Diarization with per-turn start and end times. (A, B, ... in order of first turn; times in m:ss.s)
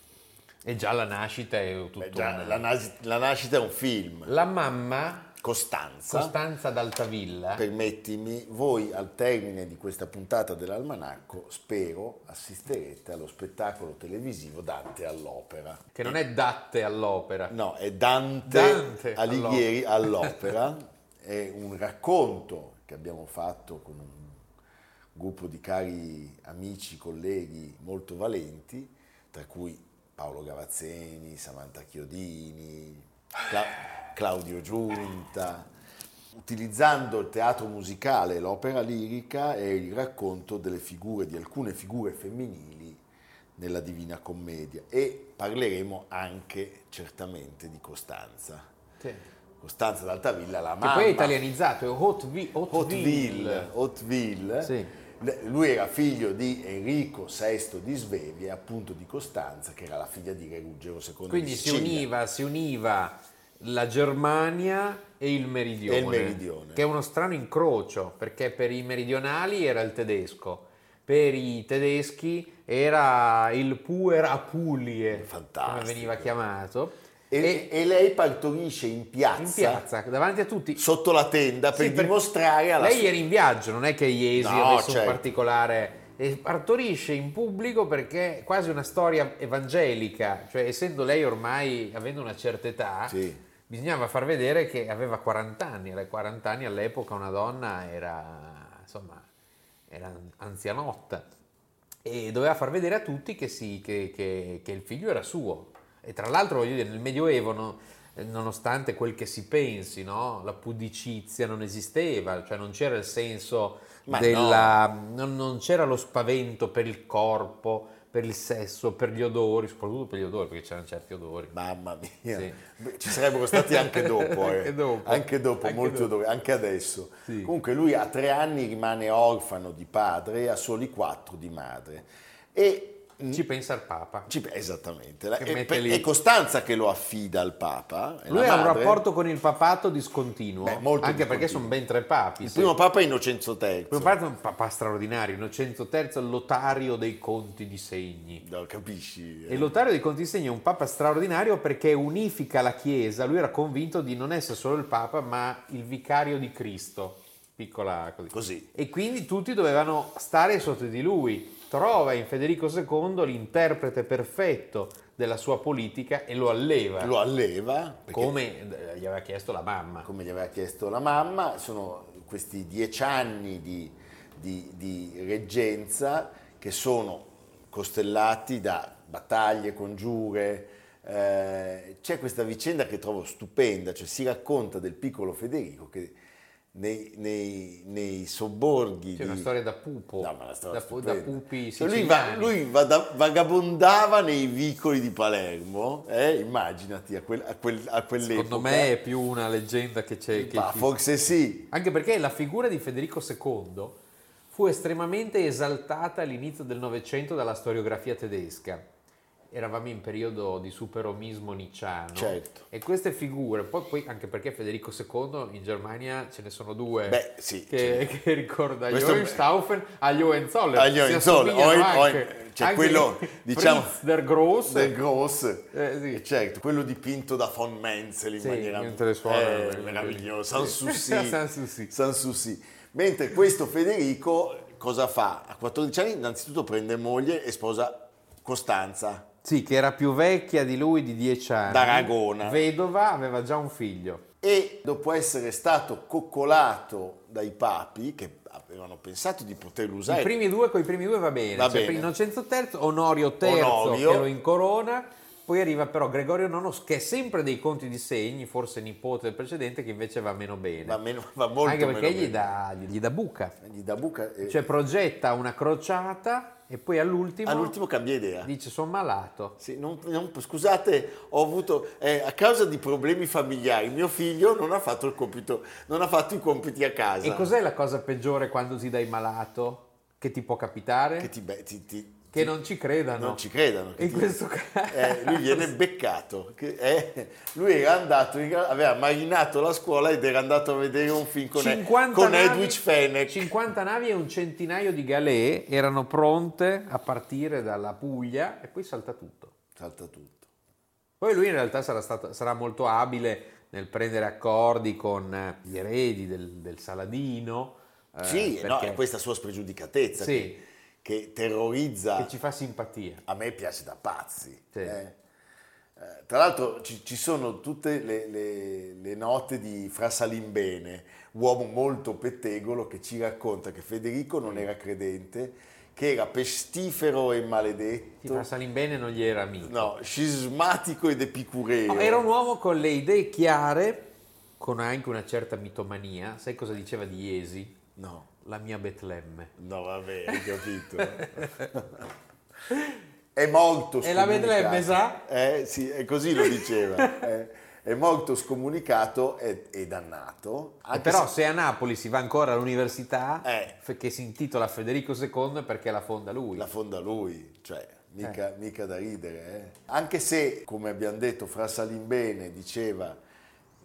0:00.6-0:02.6 A
0:02.0-0:04.3 B
0:04.2-0:05.3 A
0:05.4-0:06.4 B
0:06.1-0:07.6 A
0:07.5-0:16.2 B
0:15.9-0:17.5 A
0:17.5-0:24.4 B
0:18.4-0:20.4 A
0:25.1-0:35.7 B
0:36.4-0:43.0 B
0:43.6-0:48.7 B
0:49.0-0:49.3 A
0:49.6-0:51.4 B
0:50.8-0:53.7 A
0:52.7-1:02.1 B
0:54.6-0:54.9 A
1:01.3-1:17.7 A
1:05.9-1:06.8 B
1:15.1-1:16.4 B
1:17.3-1:19.8 B
1:19.4-1:20.8 A
1:20.8-1:23.2 B
1:21.7-1:22.1 A
1:22.8-1:39.3 A
1:24.3-1:25.2 B
1:33.1-1:33.4 B
1:39.9-1:41.3 A
1:42.0-2:01.6 A
1:54.0-1:54.8 B
2:01.5-2:13.4 B
2:02.3-2:02.6 A
2:03.5-2:06.1 A
2:07.2-2:07.5 A
2:13.3-2:14.3 A
2:14.2-2:19.0 B
2:15.4-2:16.1 A
2:18.3-2:22.7 A
2:20.6-2:21.7 B
2:22.4-2:24.2 B
2:23.9-2:28.4 A
2:28.4-2:29.7 B
2:29.5-2:47.1 A
2:38.3-2:38.7 B
2:47.0-2:48.3 B
2:48.1-2:50.1 A
2:50.0-3:06.2 B
3:06.7-3:09.5 B
3:09.2-3:12.6 A
3:10.2-3:18.9 B
3:18.2-3:21.0 A
3:20.3-3:21.7 B
3:21.7-3:24.0 A
3:24.5-3:28.9 A
3:29.5-3:45.0 A
3:32.1-3:32.6 B
3:37.0-3:38.1 B
3:38.9-3:39.4 B
3:40.7-3:44.0 B
3:44.6-3:59.3 B
3:45.7-3:46.2 A
3:48.4-3:51.9 A
3:59.4-4:04.2 A
4:01.7-4:02.6 B
4:04.4-4:10.3 B
4:10.1-4:21.0 A
4:11.5-4:12.1 B
4:13.4-4:14.3 B
4:20.8-4:22.4 B
4:21.6-4:23.6 A
4:23.6-4:24.7 B
4:24.4-4:27.8 A
4:27.4-4:28.5 B
4:28.4-4:29.6 A
4:29.6-4:37.5 B
4:37.2-4:41.3 A
4:41.2-4:42.6 B
4:42.3-4:43.4 A
4:43.1-4:53.5 B
4:44.0-4:45.7 A
4:51.5-4:59.5 A
4:59.8-5:00.5 B
5:01.2-5:09.0 A
5:08.2-5:12.3 B
5:10.2-5:10.6 A
5:12.2-5:13.2 A
5:13.2-5:15.2 B
5:14.7-5:15.0 A
5:16.0-5:28.5 B
5:28.2-5:30.0 A
5:29.6-5:32.2 B
5:31.9-5:37.8 A
5:38.0-5:38.3 B
5:38.4-5:39.5 A
5:39.6-5:42.1 B
5:40.3-5:41.7 A
5:42.7-5:43.0 A
5:43.3-5:51.3 B
5:44.0-5:45.2 A
5:46.6-5:47.1 A
5:50.9-5:56.7 A
5:53.4-5:53.7 B
5:56.5-6:03.2 B